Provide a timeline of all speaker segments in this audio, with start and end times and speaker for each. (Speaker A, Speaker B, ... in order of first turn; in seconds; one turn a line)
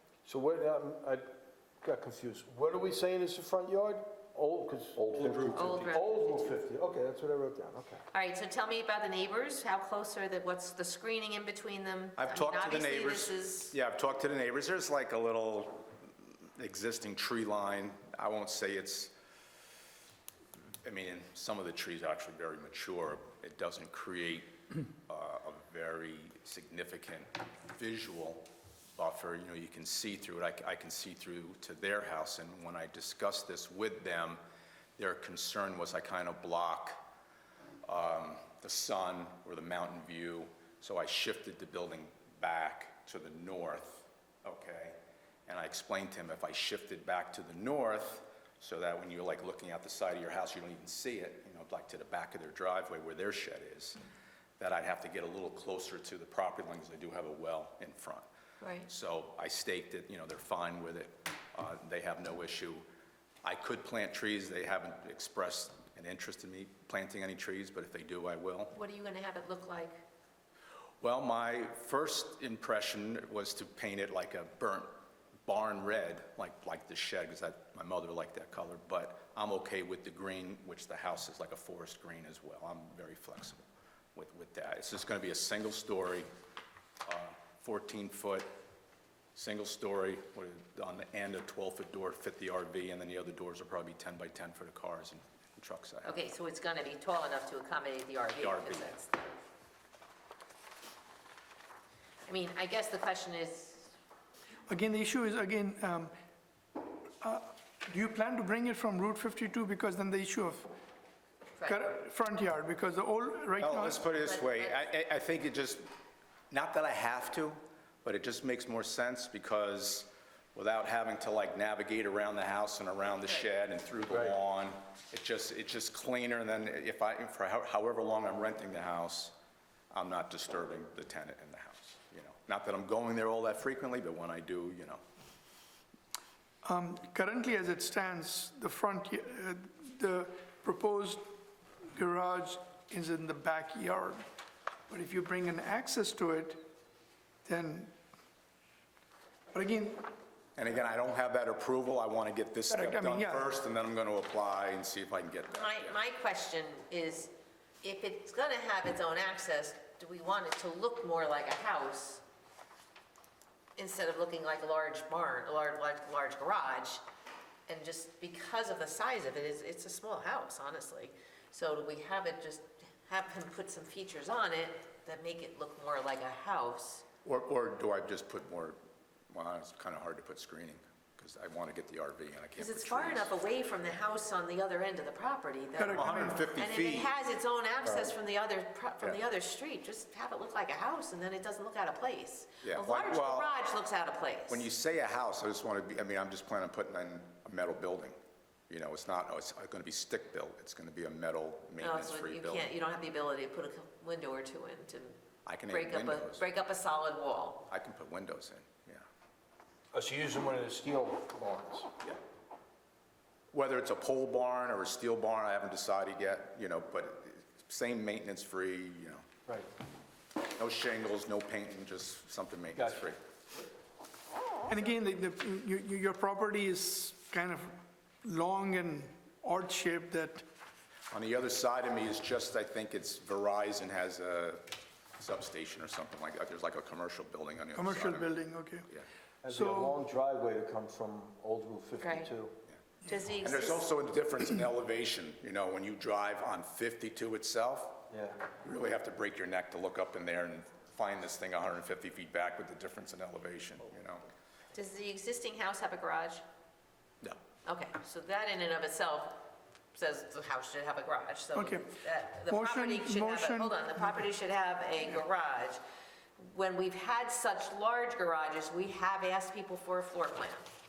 Speaker A: 0.2-1.3
Speaker A: 1.8-8.0
Speaker B: 5.1-6.0
Speaker C: 5.5-6.5
Speaker C: 8.1-13.7
Speaker B: 12.2-19.1
Speaker B: 20.8-34.4
Speaker B: 35.0-37.0
Speaker B: 37.9-54.0
Speaker B: 54.6-58.3
Speaker C: 58.6-58.9
Speaker B: 58.9-62.9
Speaker B: 63.4-68.7
Speaker C: 68.7-70.0
Speaker B: 71.0-74.9
Speaker B: 75.5-86.3
Speaker B: 87.0-88.5
Speaker B: 89.3-96.2
Speaker C: 96.0-99.3
Speaker B: 98.4-98.9
Speaker C: 102.3-103.9
Speaker D: 104.7-106.1
Speaker D: 107.2-110.7
Speaker C: 111.6-111.9
Speaker D: 111.6-114.0
Speaker B: 113.6-115.9
Speaker C: 114.1-114.9
Speaker B: 116.5-129.3
Speaker B: 129.9-135.0
Speaker D: 136.7-141.2
Speaker D: 141.9-144.2
Speaker D: 144.9-146.6
Speaker D: 147.5-147.9
Speaker D: 149.5-150.1
Speaker B: 150.6-156.0
Speaker D: 152.7-153.5
Speaker C: 155.5-162.2
Speaker C: 163.8-167.0
Speaker C: 167.7-177.1
Speaker B: 177.2-178.8
Speaker B: 179.3-183.3
Speaker C: 182.6-194.7
Speaker D: 185.8-186.5
Speaker B: 185.9-187.1
Speaker B: 192.6-193.5
Speaker B: 194.5-198.2
Speaker B: 198.7-202.7
Speaker C: 201.8-207.6
Speaker B: 205.4-206.4
Speaker B: 207.7-209.1
Speaker A: 209.9-211.9
Speaker B: 213.5-219.2
Speaker B: 220.5-223.2
Speaker A: 222.8-223.0
Speaker D: 224.7-230.4
Speaker B: 231.1-234.7
Speaker B: 235.2-238.3
Speaker D: 237.7-238.8
Speaker A: 239.4-242.5
Speaker D: 239.5-239.9
Speaker C: 242.0-242.3
Speaker C: 243.1-243.8
Speaker B: 243.4-248.0
Speaker A: 248.1-248.4
Speaker B: 248.6-254.2
Speaker C: 254.7-256.4
Speaker C: 257.7-265.8
Speaker D: 261.5-261.9
Speaker D: 262.4-264.2
Speaker C: 266.4-270.6